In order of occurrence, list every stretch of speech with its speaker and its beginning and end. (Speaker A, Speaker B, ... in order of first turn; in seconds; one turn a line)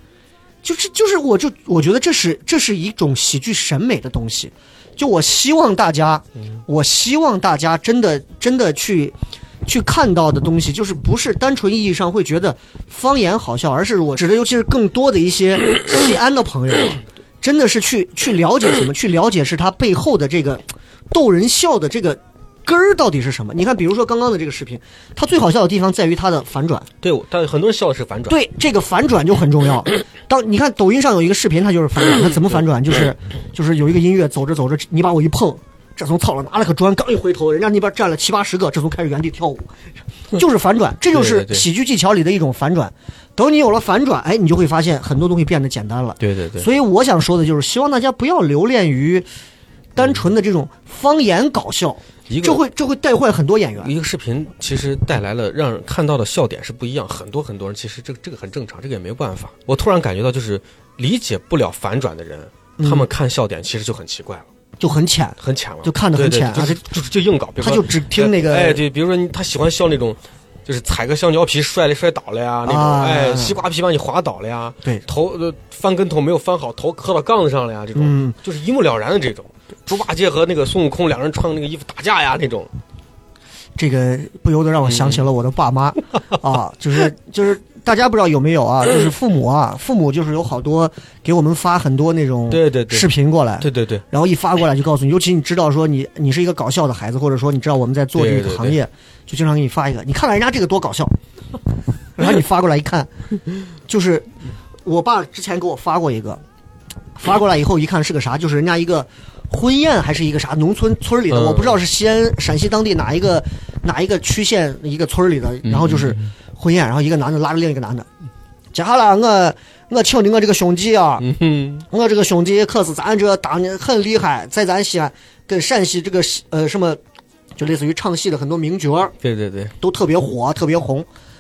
Speaker A: 0.6-26.9
Speaker B: 27.0-28.4
Speaker A: 28.3-39.7
Speaker A: 40.3-49.3
Speaker B: 41.1-41.6
Speaker B: 46.2-46.7
Speaker A: 50.0-53.9
Speaker B: 52.3-52.6
Speaker B: 53.8-64.5
Speaker A: 62.8-63.1
Speaker A: 64.8-66.9
Speaker B: 65.4-82.7
Speaker A: 67.6-68.8
Speaker A: 72.7-73.6
Speaker A: 78.0-78.3
Speaker A: 83.8-101.1
Speaker B: 84.8-85.2
Speaker B: 92.5-93.1
Speaker B: 93.6-94.0
Speaker B: 98.2-98.8
Speaker A: 102.2-103.1
Speaker A: 103.9-104.3
Speaker A: 104.8-106.4
Speaker A: 107.2-118.1
Speaker B: 111.3-111.8
Speaker B: 115.7-116.3
Speaker A: 118.7-121.3
Speaker B: 121.2-121.9
Speaker A: 121.9-127.0
Speaker A: 127.6-129.1
Speaker B: 129.2-129.7
Speaker A: 129.8-131.1